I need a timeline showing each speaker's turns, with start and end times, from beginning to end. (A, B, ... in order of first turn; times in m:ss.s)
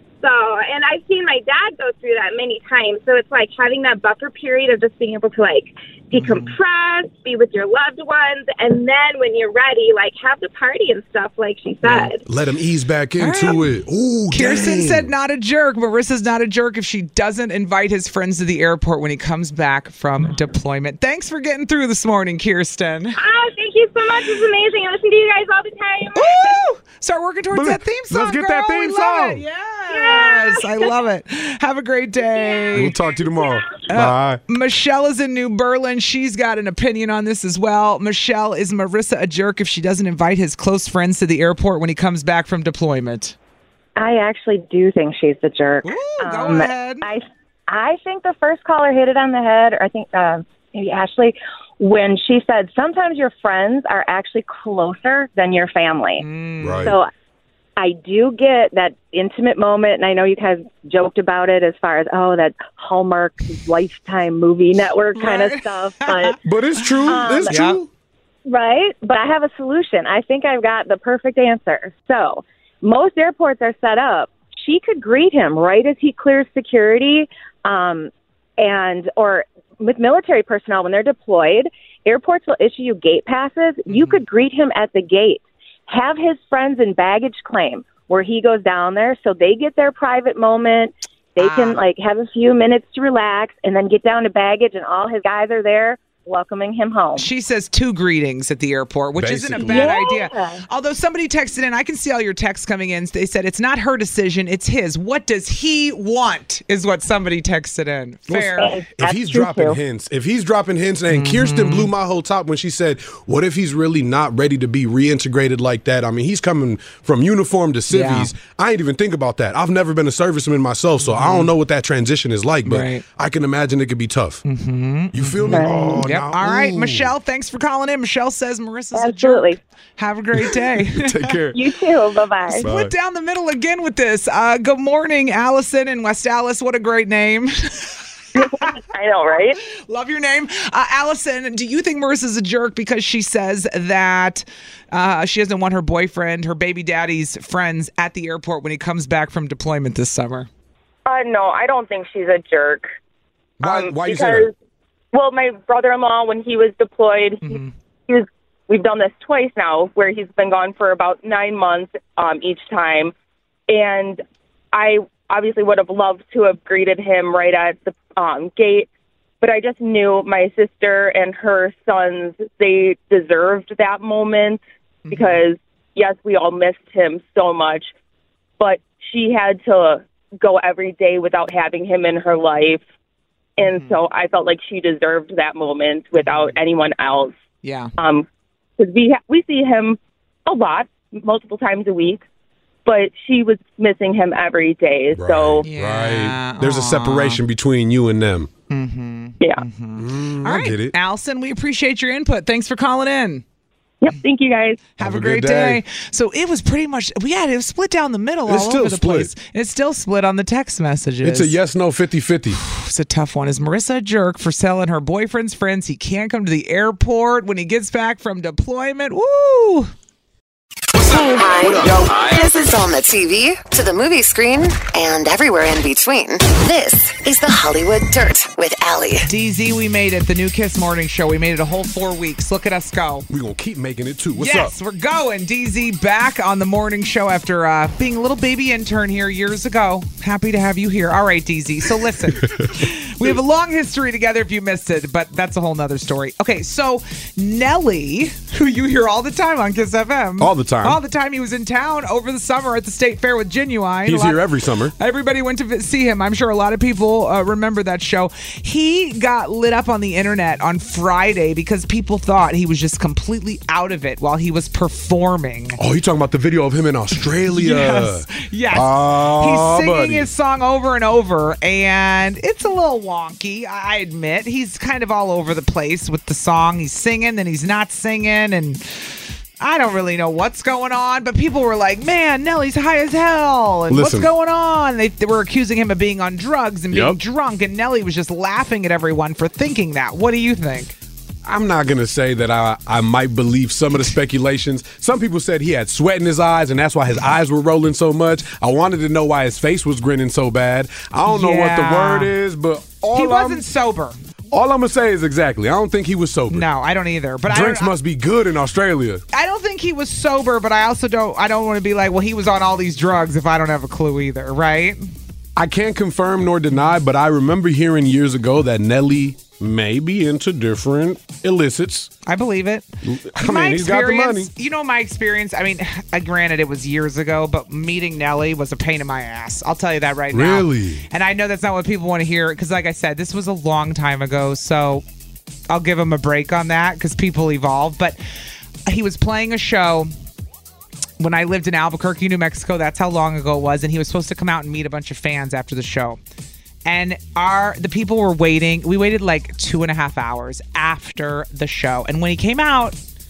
0:00.2-0:12.2 A
0:06.1-0:06.6 B
0:11.8-0:12.1 B
0:12.2-0:15.1 C
0:13.2-0:13.7 B
0:14.3-0:23.2 B
0:23.1-0:26.6 A
0:26.1-0:33.0 B
0:27.5-0:29.4 C
0:29.9-0:30.9 A
0:32.2-0:33.6 A
0:32.7-0:34.4 C
0:33.9-0:43.4 B
0:44.0-0:56.2 D
0:45.8-0:47.0 B
0:56.2-0:56.9 B
0:56.6-0:57.0 C
0:56.8-0:57.1 D
0:57.8-1:06.4 D
1:05.2-1:07.8 B
1:06.4-1:07.9 C
1:07.0-1:07.6 D
1:08.4-1:37.3 D
1:23.9-1:24.2 B
1:31.4-1:31.8 B
1:37.2-1:48.8 B
1:39.1-1:39.9 C
1:39.6-1:40.6 D
1:48.4-1:49.8 D
1:48.9-2:04.4 C
1:51.1-1:51.9 B
1:57.9-1:58.3 B
2:01.0-2:01.5 B
2:02.6-2:03.0 B
2:04.4-2:11.3 B
2:05.1-2:07.1 C
2:05.4-2:06.0 D
2:08.9-2:09.6 D
2:10.4-2:11.6 C
2:11.5-2:12.6 D
2:12.5-2:18.0 B
2:12.6-2:12.9 C
2:18.4-2:19.6 E
2:19.9-2:30.5 B
2:31.0-2:32.9 E
2:33.6-2:34.5 C
2:33.6-2:34.5 E
2:35.1-2:43.1 E
2:37.4-2:37.7 B
2:43.7-2:44.2 E
2:44.7-2:48.9 E
2:49.4-2:57.9 E
2:55.0-2:55.4 B
2:58.6-3:02.8 E
3:03.6-3:07.3 E
3:03.6-3:04.0 B
3:06.2-3:06.5 B
3:07.6-3:07.9 B
3:08.0-3:08.2 E
3:08.8-3:12.2 E
3:12.8-3:15.6 E
3:15.1-3:18.5 C
3:15.6-3:17.4 B
3:18.7-3:23.4 B
3:20.0-3:20.9 C
3:24.0-3:24.8 E
3:25.0-3:31.6 B
3:25.0-3:25.8 C
3:28.5-3:29.3 C
3:31.2-3:32.6 C
3:32.6-3:39.9 B
3:41.0-3:49.2 F
3:49.2-3:53.2 B
3:53.3-3:54.7 C
3:54.4-4:14.4 B
4:02.4-4:02.7 C
4:10.4-4:11.0 C
4:14.0-4:14.9 C
4:15.0-4:25.8 B
4:25.8-4:30.3 C
4:27.5-4:38.8 B
4:39.6-4:50.9 B
4:43.9-4:44.3 C
4:46.9-4:47.2 C
4:51.4-5:03.6 C
5:01.2-5:02.3 B
5:03.1-5:04.2 B
5:04.5-5:06.7 C
5:06.5-5:07.9 B
5:07.5-5:09.2 C
5:09.3-5:15.0 B
5:15.6-5:22.1 C
5:22.2-5:35.0 B
5:23.0-5:24.5 C
5:30.3-5:31.1 C
5:35.7-5:38.2 B
5:38.9-5:40.1 B
5:41.2-5:46.2 B
5:46.8-5:53.0 B